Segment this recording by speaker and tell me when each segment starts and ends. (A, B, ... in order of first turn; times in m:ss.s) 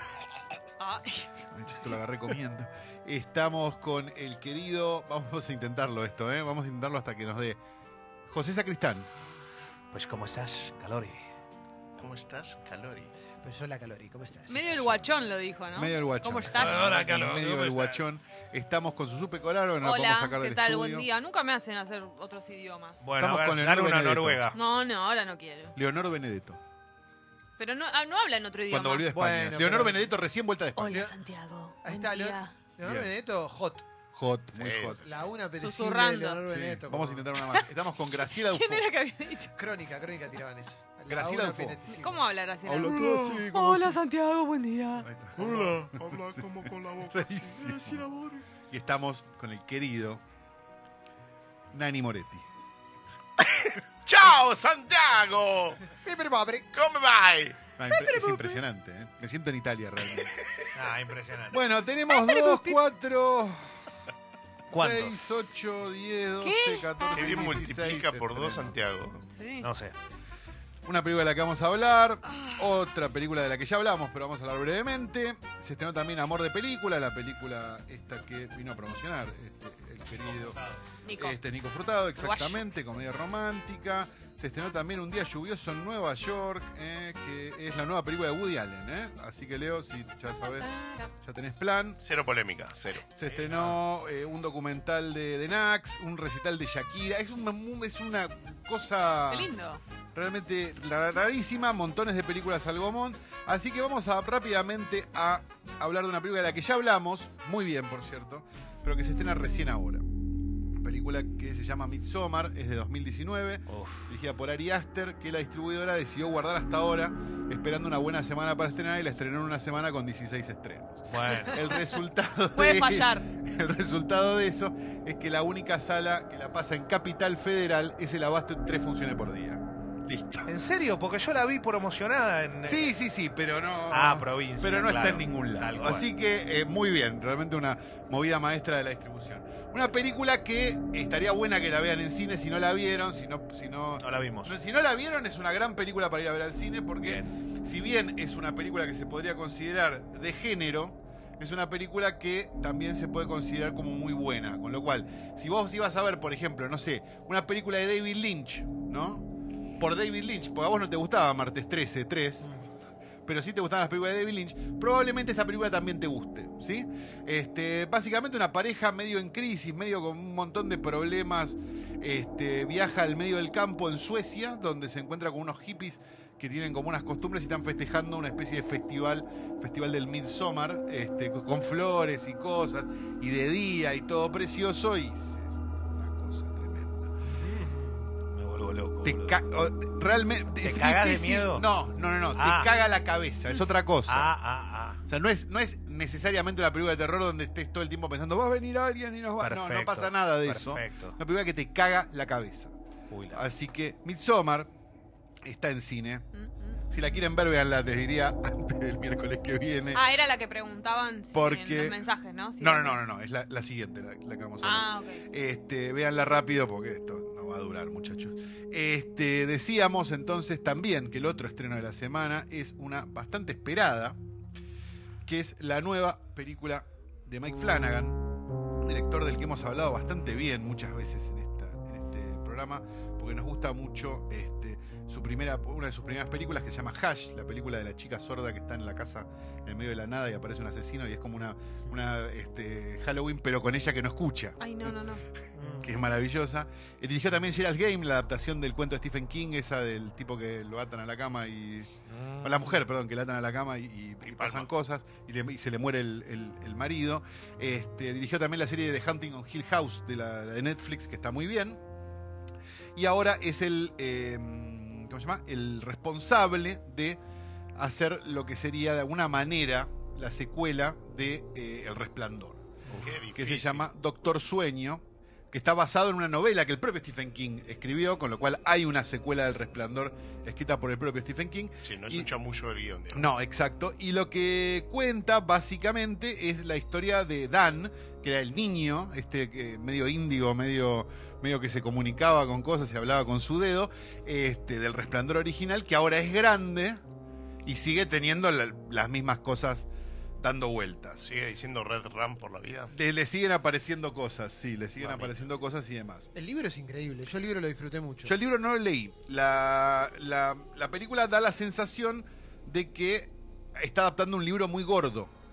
0:00.8-0:01.4 A
0:01.5-0:07.6 B
0:08.3-0:09.1 B
0:09.9-0:11.2 C
0:12.0-0:13.1 D
0:13.4-0:14.9 E
0:14.5-0:16.8 A
0:15.8-0:21.1 B
0:16.5-0:18.0 C
0:19.8-0:23.1 A
0:23.0-0:24.6 C
0:23.2-0:24.5 B
0:24.5-0:25.8 A
0:25.8-0:26.6 B
0:27.6-0:29.1 A
0:28.7-0:31.0 B
0:29.1-0:30.1 E
0:30.8-0:32.6 A
0:30.9-0:31.2 E
0:31.8-0:33.8 E
0:32.8-0:33.1 B
0:34.1-0:35.2 B
0:34.5-0:35.2 D
0:34.9-0:37.3 E
0:35.6-0:36.4 A
0:36.5-0:38.9 B
0:38.3-0:39.6 A
0:39.6-0:42.2 E
0:41.1-0:41.9 B
0:42.0-0:45.1 A
0:42.6-0:44.0 B
0:45.0-0:48.1 B
0:45.4-0:48.4 D
0:48.7-0:50.2 B
0:51.7-0:52.5 B
0:53.4-0:55.8 D
0:55.9-0:56.7 E
0:56.7-0:57.6 D
0:57.8-1:00.4 B
1:00.8-1:01.6 C
1:01.5-1:03.7 B
1:02.1-1:02.8 A
1:04.7-1:05.2 C
1:04.7-1:08.8 B
1:06.4-1:07.3 A
1:07.1-1:09.3 D
1:09.3-1:09.7 A
1:09.6-1:10.0 C
1:10.8-1:20.6 B
1:21.0-1:21.4 A
1:21.2-1:30.7 B
1:22.2-1:22.6 A
1:31.2-1:32.0 B
1:32.0-1:33.1 D
1:33.0-1:39.5 B
1:33.2-1:33.8 C
1:39.3-1:39.8 A
1:40.2-1:50.0 B
1:50.8-2:10.5 B
1:53.7-1:54.1 C
2:01.1-2:01.6 C
2:02.6-2:03.3 A
2:10.5-2:12.9 C
2:12.6-2:39.3 B
2:13.9-2:16.1 C
2:24.0-2:24.6 C
2:27.0-2:27.4 C
2:39.8-2:42.5 B
2:43.3-3:07.1 B
3:07.4-3:09.4 C
3:09.0-3:14.3 B
3:10.6-3:11.7 C
3:12.4-3:12.7 C
3:14.1-3:15.0 C
3:15.1-3:22.7 B
3:19.4-3:21.2 C
3:23.1-3:23.4 C
3:23.3-3:24.7 B
3:25.4-3:26.3 B
3:26.3-3:26.8 A
3:26.9-3:30.1 B
3:29.9-3:33.0 A
3:31.3-3:32.0 B
3:32.6-3:44.2 B
3:34.6-3:35.2 A
3:45.3-3:48.2 B
3:48.8-4:05.2 B
4:04.6-4:05.2 A
4:05.6-4:05.9 E
4:05.8-4:21.8 B
4:12.1-4:12.7 C
4:14.4-4:14.7 D
4:23.0-4:27.2 B
4:27.8-4:32.7 B
4:32.9-4:33.9 D
4:33.3-4:42.3 B
4:41.8-4:43.3 D
4:43.1-4:57.0 B
4:57.6-4:59.9 B
5:00.4-5:01.2 B
5:01.2-5:02.9 D
5:02.9-5:06.3 B
5:05.0-5:05.5 D
5:06.3-5:08.3 E
5:08.2-5:15.3 B